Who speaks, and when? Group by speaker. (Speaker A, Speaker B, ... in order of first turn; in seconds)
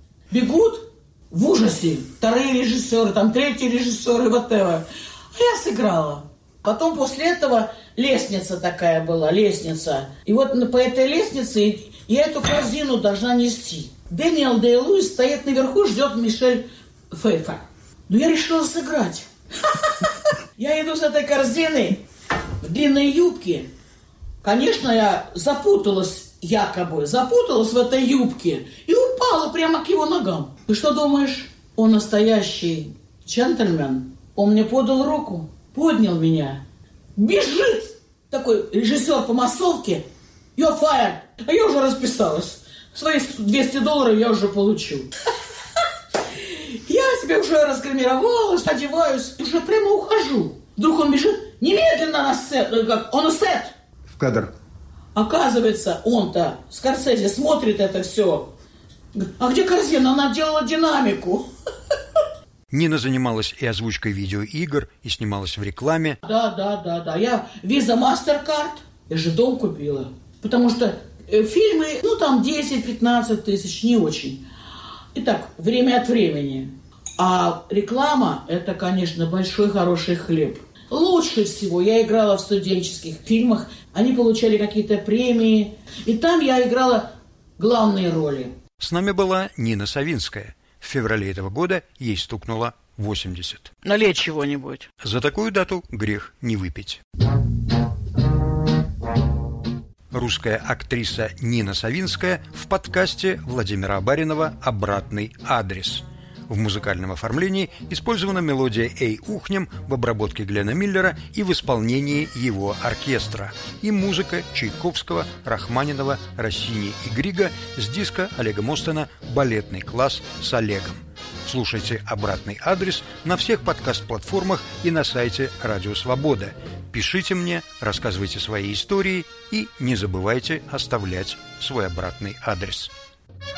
Speaker A: 0.3-22.0, 22.6-23.7, 24.4-36.6, 37.1-40.0, 40.5-45.1, 46.2-53.7, 55.1-58.5, 59.1-61.5, 66.2-74.4, 75.1-88.5, 93.8-94.9
Speaker B: 54.1-54.5, 62.7-66.2, 88.8-93.7, 95.0-97.0, 100.1-132.9